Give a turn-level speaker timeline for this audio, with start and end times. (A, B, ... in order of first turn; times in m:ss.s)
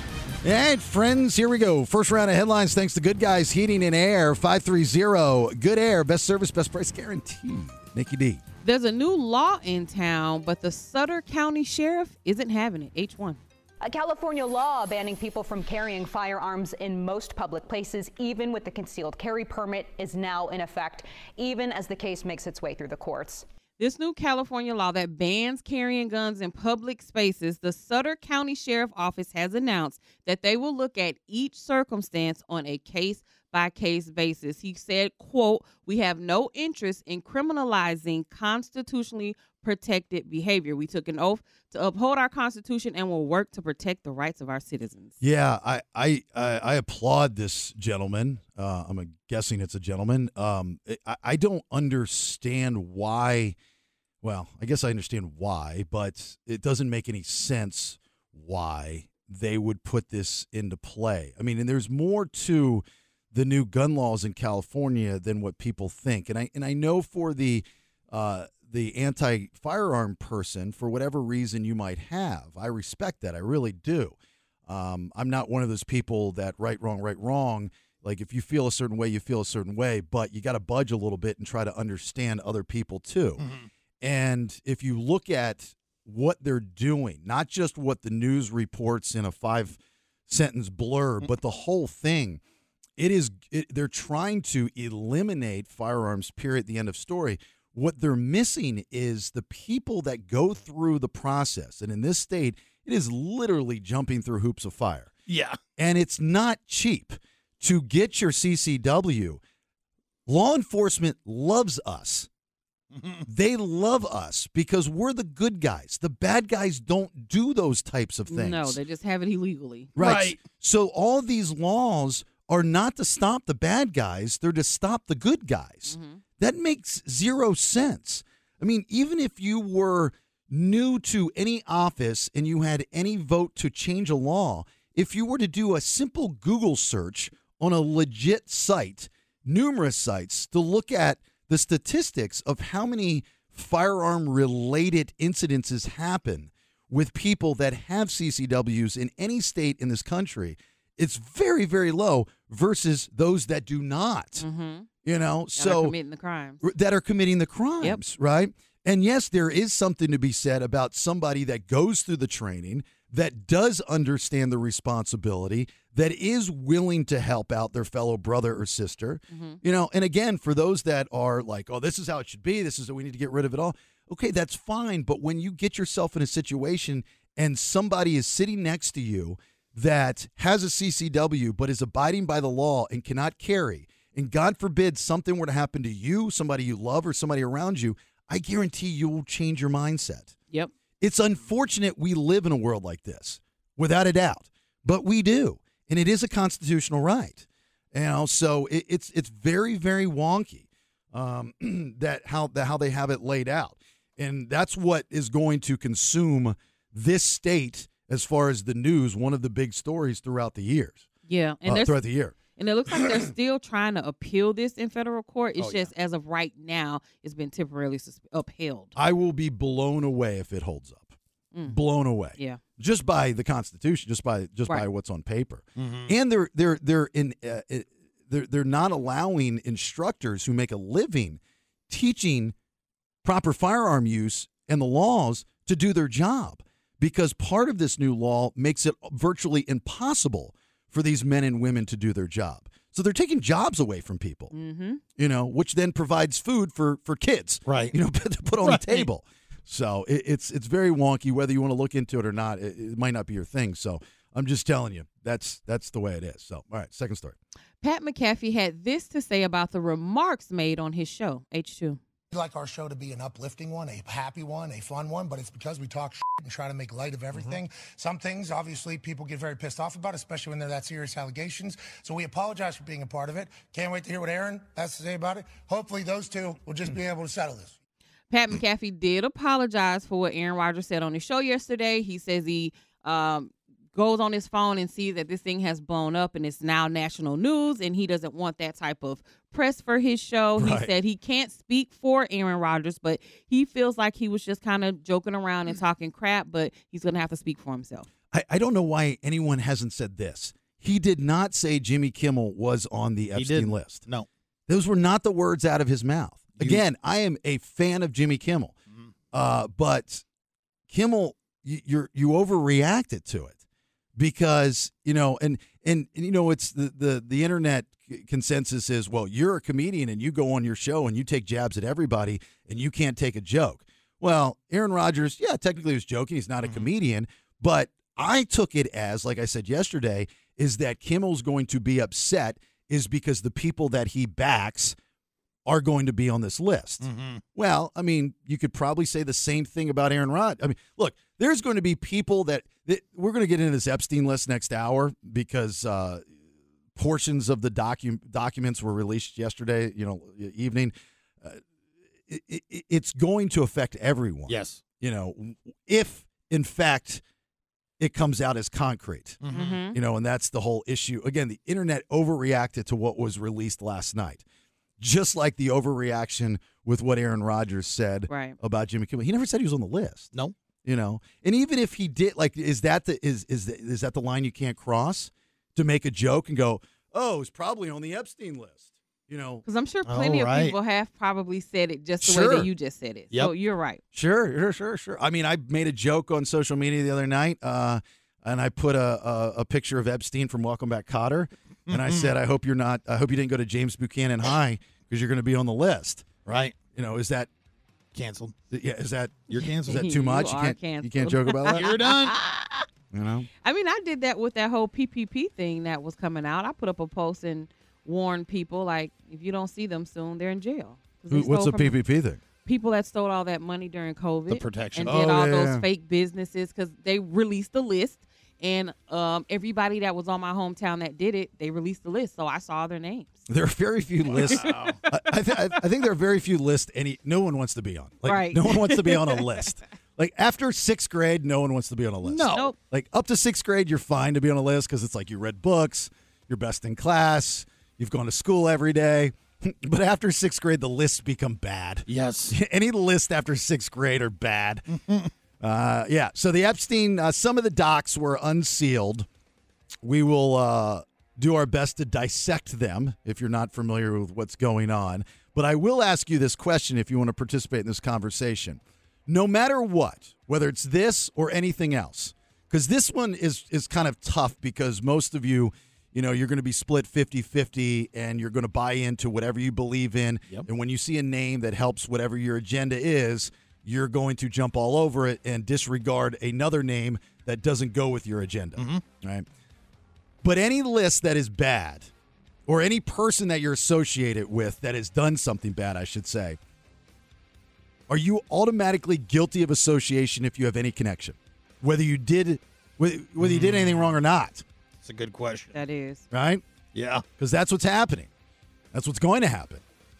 0:00.4-0:08.4 A
0:08.6-0:13.4 B
0:13.8-0:23.4 C
0:23.8-0:45.1 B
0:45.2-0:53.6 A
0:54.2-1:14.2 A
1:14.7-1:23.4 A
1:23.4-1:23.7 D
1:24.0-1:32.4 A
1:33.0-1:45.1 A
1:45.3-1:45.6 D
1:45.8-1:49.4 A
1:50.3-1:52.3 A
1:52.9-1:53.2 D
1:53.2-1:58.8 A
1:58.3-1:59.9 B
2:00.0-2:34.4 A
2:00.0-2:00.4 D
2:05.9-2:06.2 B
2:34.4-2:34.9 B
2:35.0-2:35.9 A
2:35.6-2:36.6 B
2:36.6-3:10.3 A
2:49.3-2:49.6 B
3:11.0-3:31.0 A
3:31.3-3:38.9 B
3:31.6-3:32.3 A
3:32.9-3:33.2 A
3:35.6-3:35.9 D
3:38.9-3:52.5 A
3:41.5-3:41.8 B
3:42.3-3:42.6 B
3:45.8-3:46.1 D
3:53.2-4:04.5 A
4:04.5-4:05.0 B
4:05.2-4:17.4 A
4:07.7-4:07.9 D
4:08.6-4:09.1 D
4:17.8-4:22.0 B
4:22.3-4:37.7 E
4:38.3-4:58.1 B
4:50.6-4:50.9 A
4:58.3-5:04.0 A
5:03.3-5:04.3 D
5:04.7-5:08.7 A
5:06.6-5:06.8 D
5:09.3-5:10.2 A
5:10.9-5:13.6 A
5:14.2-5:35.0 A
5:26.6-5:26.9 D
5:35.6-5:46.2 A
5:37.0-5:37.4 D
5:46.9-5:51.6 A
5:52.2-5:57.2 A
5:54.5-5:54.8 D
5:58.0-5:59.4 A
5:59.4-5:59.8 D
5:59.5-6:00.0 B
5:59.9-6:04.4 A
6:05.0-6:10.3 A
6:08.3-6:08.6 B
6:10.8-6:19.6 A
6:19.6-6:24.0 B
6:20.0-6:20.8 D
6:22.2-6:22.7 A
6:24.1-6:36.3 A
6:31.9-6:32.3 D
6:36.4-6:36.8 D
6:36.9-6:37.5 A
6:38.1-6:38.5 D
6:38.7-6:41.9 A
6:39.5-6:40.1 D
6:39.5-6:42.8 B
6:41.7-6:42.4 D
6:43.1-6:43.5 A
6:43.6-6:52.0 B
6:51.3-6:52.4 A
6:52.6-7:03.4 B
6:54.5-6:55.1 D
6:55.0-6:55.8 A
7:03.5-7:24.8 A
7:04.3-7:05.0 D
7:04.5-7:05.3 B
7:08.2-7:09.6 B
7:12.2-7:12.7 D
7:12.5-7:12.7 B
7:22.1-7:22.5 D
7:24.9-7:25.3 D
7:25.6-7:29.3 A
7:30.0-7:59.4 A
7:58.8-7:59.0 D
8:00.4-8:02.1 A
8:02.7-8:06.6 A
8:08.1-8:14.6 A
8:13.4-8:14.1 D
8:15.0-8:15.8 D
8:15.7-8:16.2 B
8:16.3-8:16.6 A
8:16.9-8:17.2 D
8:17.4-8:18.3 A
8:18.9-8:19.8 A